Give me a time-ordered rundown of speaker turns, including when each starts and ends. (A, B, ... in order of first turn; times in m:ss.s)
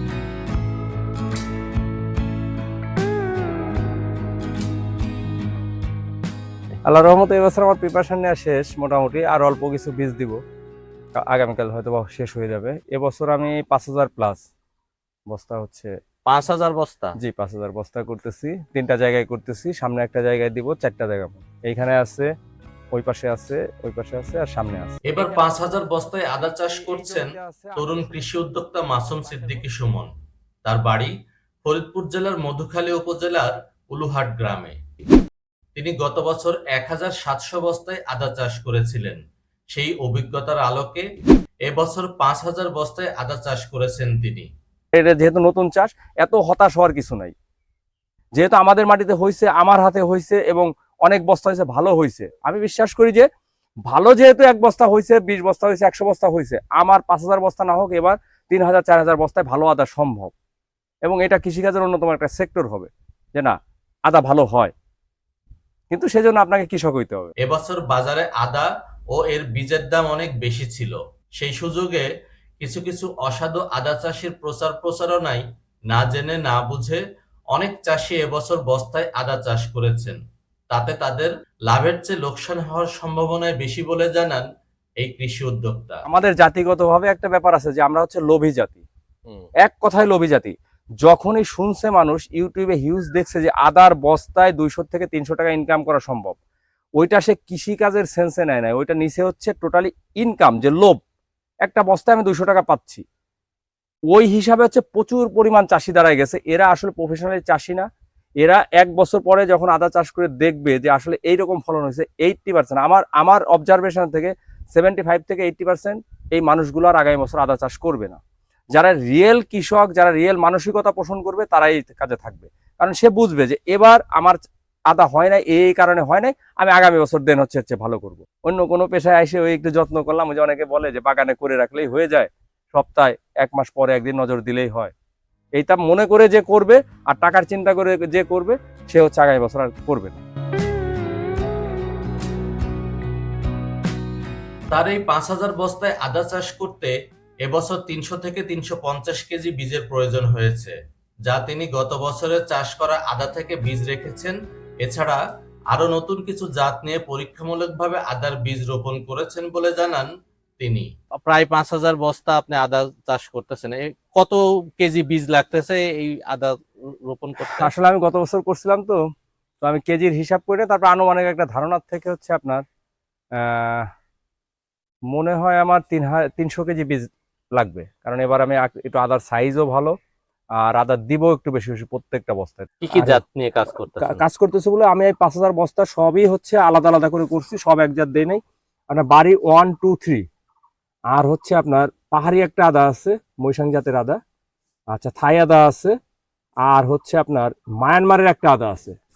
0:06.8-0:10.4 A
0:11.2-0:14.5 A
0:15.3-0:15.9 A
0:16.3-0:17.2 B
0:17.2-0:22.3 A
0:22.9-0:29.7 A
0:25.1-0:30.1 B
0:30.6-0:31.1 B
0:31.6-0:34.8 B
0:35.8-0:39.2 B
0:39.7-0:41.0 B
0:41.6-0:44.5 B
0:44.9-0:47.3 A
0:48.3-0:53.3 A
0:53.9-1:00.3 A
1:01.0-1:03.6 A
1:04.1-1:04.7 A
1:05.9-1:07.3 A
1:07.4-1:12.1 B
1:12.6-1:17.0 B
1:17.5-1:20.2 B
1:20.7-1:24.5 B
1:25.0-1:26.0 B
1:26.1-1:28.8 A
1:29.6-1:36.4 A
1:37.0-1:41.0 A
1:41.6-1:43.0 A
1:44.1-1:47.9 A
1:48.4-1:58.2 A
1:58.7-2:14.9 A
2:15.6-2:20.2 A
2:24.7-2:40.9 B
2:41.3-2:46.6 C
2:47.1-2:47.7 C
2:47.4-2:49.0 A
2:49.6-2:52.6 A
2:53.4-2:53.9 A
2:55.1-3:00.0 A
3:00.6-3:03.2 A
3:02.8-3:04.2 C
3:04.0-3:10.2 A
3:11.1-3:14.2 A
3:14.9-3:16.0 A
3:16.7-3:19.0 A